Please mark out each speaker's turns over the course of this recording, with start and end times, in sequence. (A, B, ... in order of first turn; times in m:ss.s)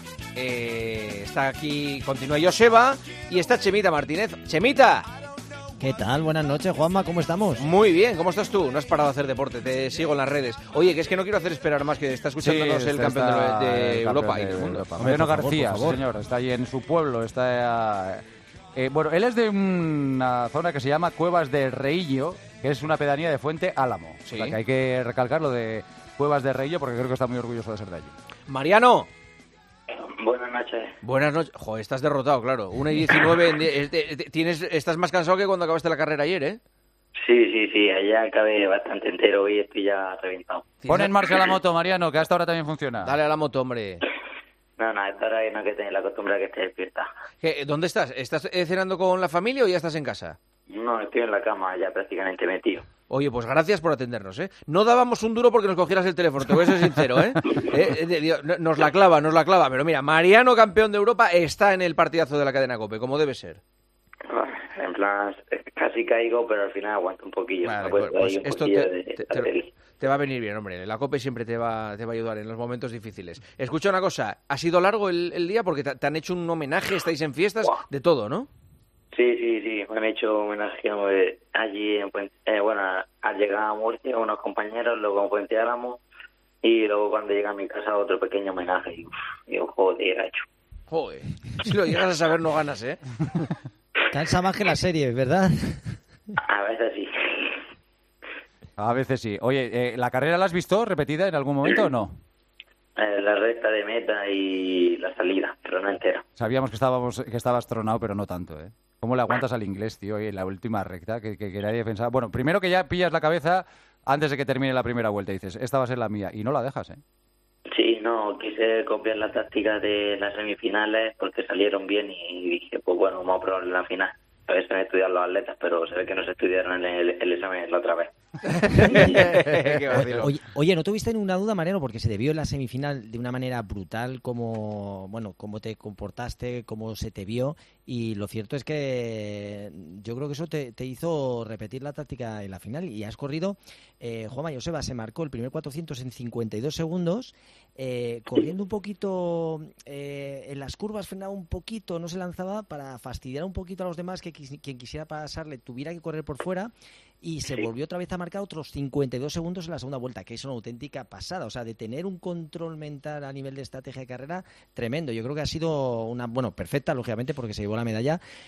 0:00.3-0:05.1 A
0:05.8-0:07.7 B
0:07.6-0:15.0 A
0:12.4-0:18.2 C
0:15.0-0:16.0 B
0:18.7-0:28.1 C
0:24.2-0:24.6 A
0:28.5-0:29.1 A
0:29.9-0:30.9 D
0:31.0-0:36.6 A
0:37.2-0:40.7 D
0:40.8-0:41.2 A
0:40.9-0:43.1 C
0:41.3-0:41.5 D
0:43.0-0:44.0 A
0:44.8-0:47.1 D
0:47.4-0:50.4 A
0:50.7-0:52.8 D
0:53.1-1:03.6 A
1:04.3-1:09.7 D
1:07.6-1:09.5 A
1:10.0-1:18.5 A
1:19.1-1:26.0 D
1:26.6-1:30.4 D
1:30.9-1:33.5 A
1:34.1-1:36.0 B
1:36.4-1:37.6 D
1:38.8-1:42.2 C
1:43.0-1:46.2 D
1:46.4-1:57.0 C
1:57.7-2:08.1 D
2:08.5-2:10.3 A
2:08.7-2:09.3 D
2:09.9-2:36.7 B
2:37.2-2:48.2 B